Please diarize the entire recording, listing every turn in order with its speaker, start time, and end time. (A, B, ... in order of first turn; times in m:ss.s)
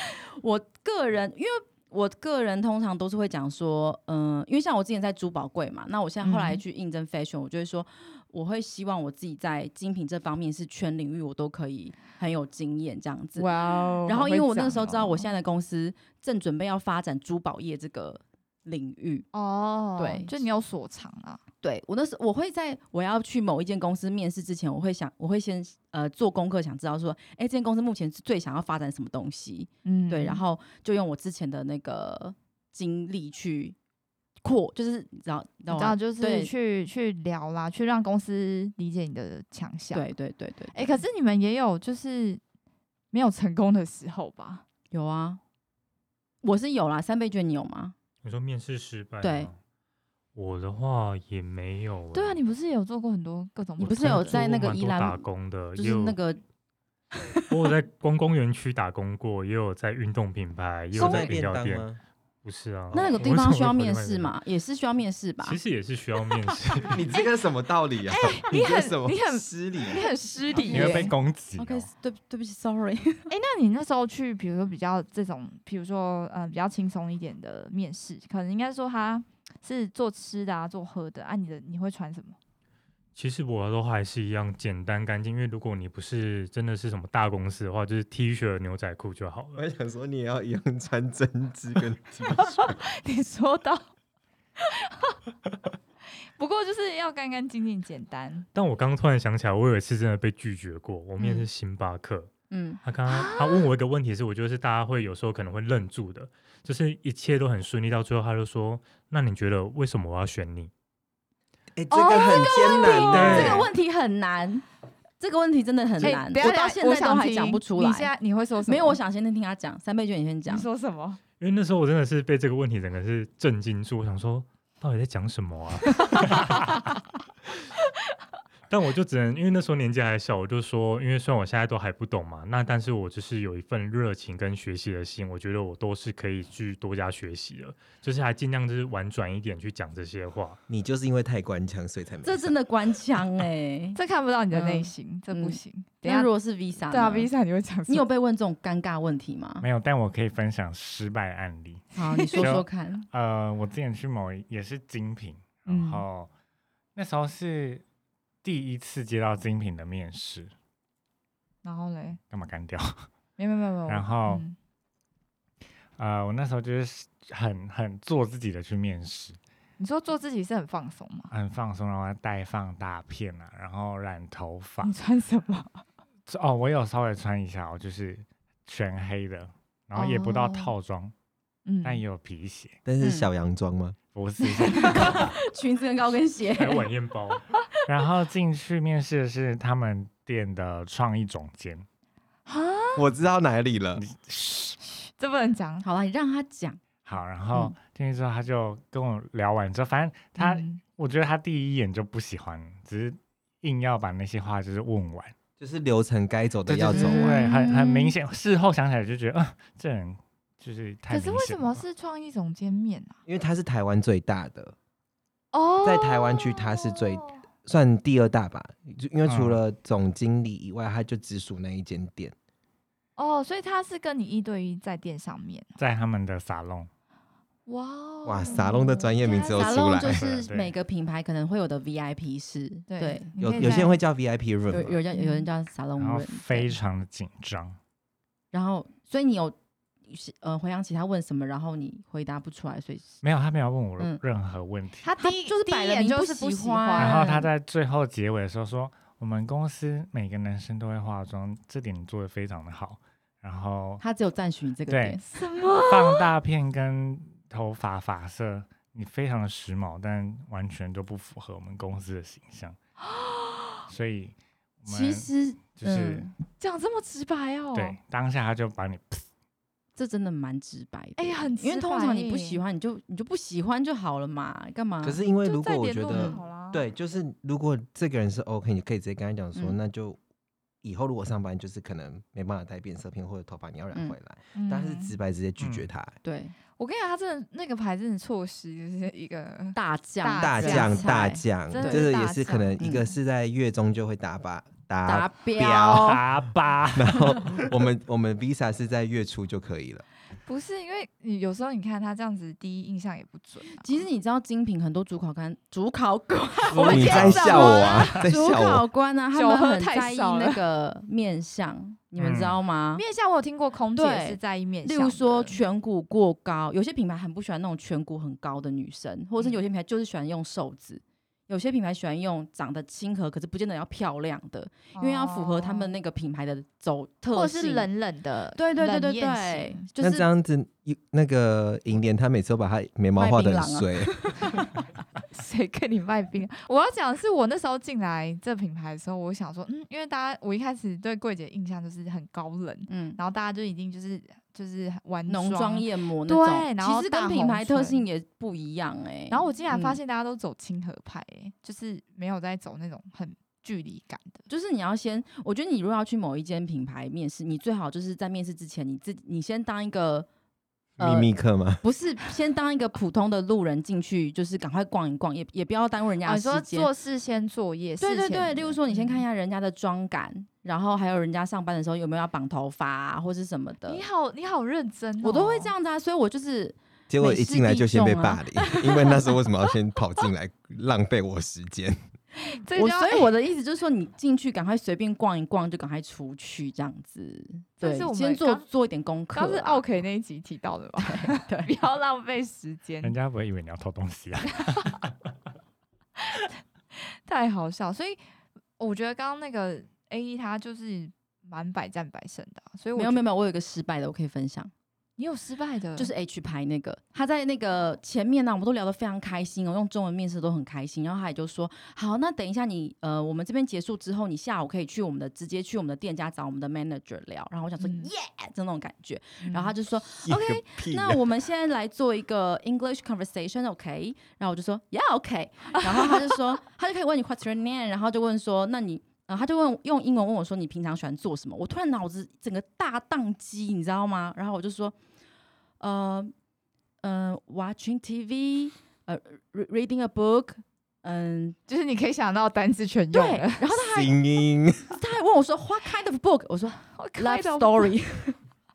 0:00.4-0:13.5 A
0:06.2-0:06.6 B
0:13.4-0:15.3 B
0:14.0-0:19.3 A
0:19.3-0:21.4 B
0:20.0-0:20.4 A
0:21.6-0:33.8 A
0:29.8-0:30.4 B
0:34.4-0:36.5 A
0:35.7-0:40.1 B
0:39.9-0:41.0 A
0:40.7-0:42.4 B
0:43.1-0:44.6 B
0:44.9-0:45.4 A
0:46.4-0:47.9 A
0:48.2-0:49.6 C
0:49.2-0:49.5 A
0:50.3-0:52.4 C
0:52.1-0:54.4 B
0:53.8-0:55.2 A
0:53.8-0:56.2 C
0:55.8-0:56.4 A
0:57.5-1:01.8 C
1:00.9-1:02.0 D
1:02.4-1:04.3 C
1:02.9-1:05.6 A
1:05.4-1:07.0 C
1:06.9-1:10.0 D
1:08.1-1:11.1 B
1:10.6-1:13.3 A
1:10.6-1:11.9 E
1:13.3-1:22.4 B
1:23.1-1:29.6 C
1:29.5-1:32.7 D
1:32.3-1:33.8 B
1:34.6-1:35.2 B
1:36.4-1:38.5 B
1:38.5-1:42.3 C
1:41.2-1:41.4 A
1:42.5-1:42.8 A
1:42.8-1:50.7 C
1:43.1-1:43.7 B
1:51.8-1:53.7 D
1:51.9-1:53.6 B
1:52.0-1:54.6 A
1:53.1-1:53.6 C
1:55.2-1:58.1 A
1:56.0-1:59.0 B
1:58.6-2:00.7 A
2:00.5-2:01.2 B
2:01.4-2:06.8 C
2:08.7-2:20.6 C
2:20.7-2:22.6 D
2:22.2-2:24.0 A
2:24.0-2:26.3 B
2:24.5-2:27.3 A
2:26.9-2:28.0 B
2:27.9-2:29.7 A
2:29.6-2:36.3 E
2:31.9-2:33.1 A
2:35.7-2:36.0 B
2:36.9-2:37.8 E
2:38.4-2:40.5 E
2:41.6-2:42.2 B
2:42.3-2:43.1 E
2:43.4-2:44.6 B
2:43.9-2:44.4 E
2:46.0-2:49.4 E
2:49.8-2:51.3 B
2:51.3-2:54.9 E
2:54.8-2:55.8 B
2:56.3-3:01.1 E
3:00.0-3:00.7 B
3:01.6-3:02.0 B
3:01.8-3:02.8 E
3:02.8-3:04.0 D
3:03.0-3:03.3 A
3:04.1-3:05.3 E
3:04.6-3:05.2 B
3:04.7-3:06.9 A
3:06.5-3:07.4 C
3:07.9-3:11.8 E
3:12.4-3:13.0 B
3:12.9-3:14.0 D
3:14.0-3:14.8 E
3:14.8-3:15.8 B
3:15.8-3:16.8 A
3:17.0-3:25.3 E
3:20.4-3:20.8 B
3:25.6-3:27.4 D
3:26.6-3:31.8 E
3:26.9-3:28.1 A
3:31.1-3:33.2 B
3:33.2-3:34.8 D
3:35.5-3:37.4 B
3:35.8-3:42.3 D
3:39.3-3:39.6 E
3:43.2-3:45.8 B
3:45.8-3:46.9 E
3:47.7-3:50.0 B
3:48.2-3:50.2 D
3:49.5-3:53.8 A
3:50.1-3:50.7 E
3:52.9-3:54.0 B
3:53.4-3:55.0 D
3:54.7-3:56.8 A
3:55.1-3:55.5 B
3:56.0-3:57.8 E
3:58.5-3:59.6 A
4:00.1-4:03.1 A
4:03.2-4:05.1 E
4:05.0-4:07.4 B
4:05.2-4:07.5 A
4:07.0-4:14.0 E
4:14.0-4:15.2 A
4:14.9-4:22.8 E
4:15.3-4:16.3 B
4:23.1-4:23.8 B
4:23.9-4:26.3 E
4:24.9-4:26.3 A
4:26.6-4:28.0 B
4:27.7-4:29.2 E
4:30.0-4:35.2 A
4:31.2-4:32.6 B
4:35.0-4:40.2 D
4:35.4-4:36.8 B
4:36.1-4:36.4 A
4:40.8-4:46.2 D
4:44.5-4:45.1 B
4:45.6-4:45.9 E
4:46.2-4:46.5 A
4:46.8-4:52.8 B
4:49.7-4:52.1 A
4:50.4-4:56.3 D
4:52.8-4:53.0 A
4:55.0-4:56.2 A
4:56.0-4:57.7 E
4:56.9-5:00.0 D
5:00.4-5:04.0 B
5:03.7-5:13.0 A
5:06.7-5:07.6 E
5:06.8-5:08.1 B
5:06.9-5:08.8 D
5:09.3-5:10.6 B
5:12.2-5:12.6 E
5:12.9-5:15.6 B
5:14.0-5:27.9 A
5:25.0-5:25.9 B
5:27.3-5:29.8 B
5:28.5-5:30.2 A
5:30.0-5:34.2 D
5:33.2-5:34.6 A
5:35.3-5:48.0 B
5:42.9-5:43.2 A
5:45.3-5:50.0 A
5:49.3-5:54.4 B
5:54.5-6:00.3 A
6:01.0-6:06.9 A
6:01.0-6:01.8 D
6:06.2-6:09.2 B
6:08.0-6:14.0 A
6:13.9-6:15.7 B
6:15.2-6:19.3 A
6:17.1-6:22.0 D
6:22.4-6:23.3 B
6:22.7-6:29.8 A
6:27.8-6:28.6 B
6:29.3-6:33.2 B
6:31.0-6:31.7 A
6:33.0-6:35.1 E
6:36.2-6:38.2 B
6:38.8-6:43.2 B
6:43.0-6:44.7 A
6:45.2-6:46.1 B
6:46.0-7:14.9 A
6:57.8-6:58.1 B
6:59.4-6:59.7 B
7:00.2-7:01.2 D
7:15.8-7:16.3 A
7:17.0-7:21.6 A
7:21.7-7:23.7 B
7:23.1-7:24.2 A
7:23.7-7:25.0 D
7:24.9-7:28.4 A
7:26.8-7:27.9 B